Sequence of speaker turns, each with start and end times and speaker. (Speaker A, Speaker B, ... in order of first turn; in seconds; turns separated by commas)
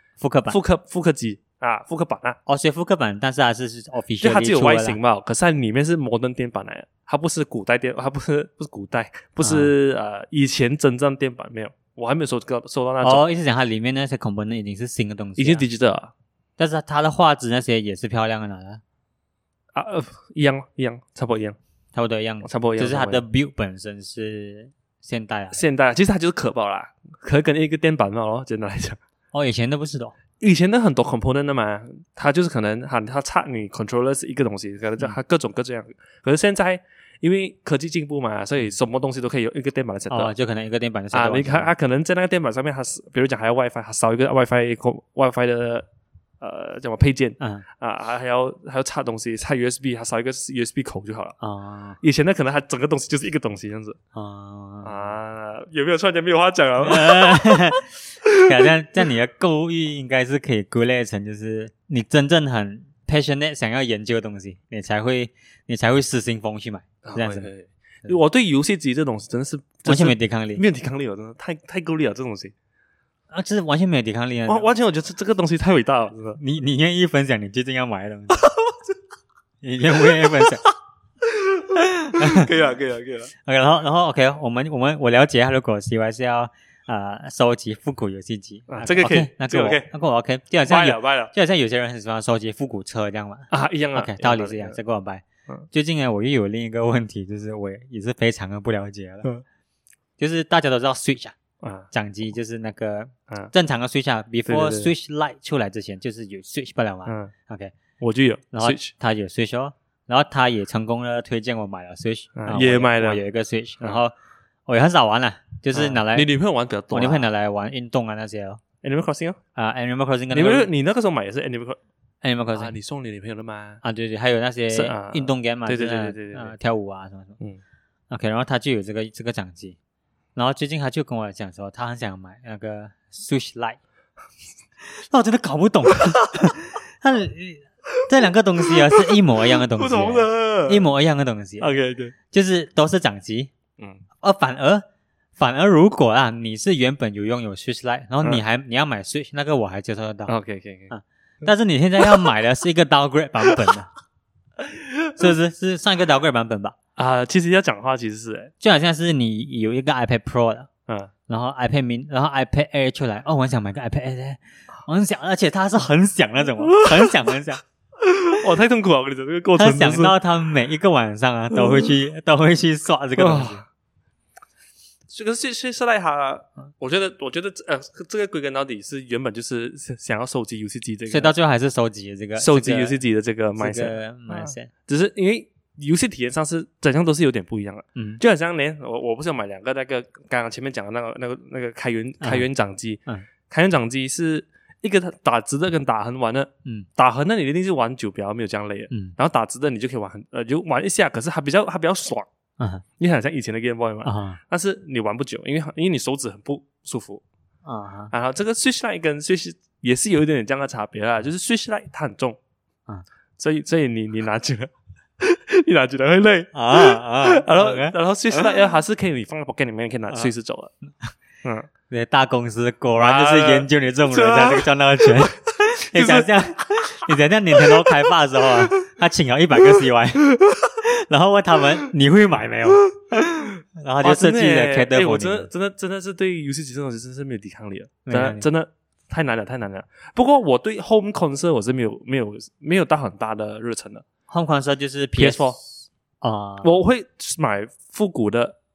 Speaker A: 0.2-0.6, Speaker B: 0.5-2.4, Speaker A: 2.5-5.0, Speaker B: 4.2-13.2, Speaker A: 9.4-9.7, Speaker A: 13.0-15.7, Speaker B: 15.4-16.1, Speaker A: 16.6-18.8, Speaker B: 19.7-21.6, Speaker A: 21.9-25.6, Speaker B: 22.4-23.2, Speaker B: 25.5-29.0, Speaker A: 29.3-30.1, Speaker B: 30.4-40.3, Speaker A: 40.1-41.7, Speaker B: 41.1-45.9, Speaker B: 46.4-51.4, Speaker A: 47.4-47.6, Speaker A: 51.4-52.0, Speaker B: 52.0-54.0, Speaker A: 54.1-55.1, Speaker B: 54.8-57.6, Speaker A: 56.9-67.5, Speaker B: 67.0-72.5, Speaker A: 69.8-70.6, Speaker A: 73.3-74.7, Speaker B: 74.5-76.4, Speaker A: 76.4-78.5, Speaker B: 78.5-78.7, Speaker A: 79.6-80.7, Speaker B: 81.2-83.3, Speaker A: 82.1-82.5, Speaker A: 83.5-99.3, Speaker B: 88.7-89.9, Speaker B: 90.7-91.3, Speaker B: 93.5-94.8, Speaker A: 100.2-101.3, Speaker B: 101.6-101.9, Speaker A: 101.9-107.7, Speaker B: 104.5-104.9, Speaker B: 107.1-107.3, Speaker B: 108.0-108.9, Speaker A: 108.5-114.1, Speaker B: 112.4-113.2, Speaker A: 114.7-116.3, Speaker B: 115.7-117.3, Speaker A: 116.9-118.6, Speaker B: 118.8-119.4, Speaker A: 119.6-120.7, Speaker B: 120.3-121.8, Speaker A: 122.2-122.7, Speaker B: 122.5-123.8, Speaker A: 123.8-127.4, Speaker B: 124.7-126.5, Speaker A: 128.1-129.8, Speaker A: 130.4-133.8, Speaker A: 134.8-141.7, Speaker B: 138.9-140.9, Speaker B: 141.6-142.1, Speaker A: 142.3-143.5, Speaker A: 144.2-144.8, Speaker A: 145.4-150.3, Speaker B: 150.3-150.9, Speaker A: 150.9-153.9, Speaker B: 154.6-155.3, Speaker A: 155.2-156.8, Speaker B: 157.0-158.5, Speaker A: 158.6-160.7, Speaker A: 161.3-167.6, Speaker B: 166.7-167.2, Speaker B: 168.0-170.2, Speaker A: 169.6-173.6, Speaker B: 171.5-171.9, Speaker B: 173.2-173.6, Speaker B: 175.1-181.3, Speaker A: 181.1-183.0, Speaker B: 182.4-202.3, Speaker A: 183.6-184.7, Speaker A: 188.0-188.2, Speaker A: 192.2-192.5, Speaker A: 198.9-199.2, Speaker A: 202.6-202.8, Speaker B: 203.0-207.2, Speaker A: 204.0-204.4, Speaker A: 207.7-208.1, Speaker B: 208.1-212.4, Speaker B: 213.4-220.7, Speaker A: 216.5-218.0, Speaker A: 221.9-235.5, Speaker B: 223.0-225.3, Speaker B: 225.9-226.3, Speaker B: 227.6-227.9, Speaker B: 230.4-230.7, Speaker B: 234.0-244.1, Speaker A: 238.1-238.5, Speaker A: 244.3-245.7, Speaker B: 245.2-245.6, Speaker A: 246.2-246.8, Speaker B: 246.6-248.6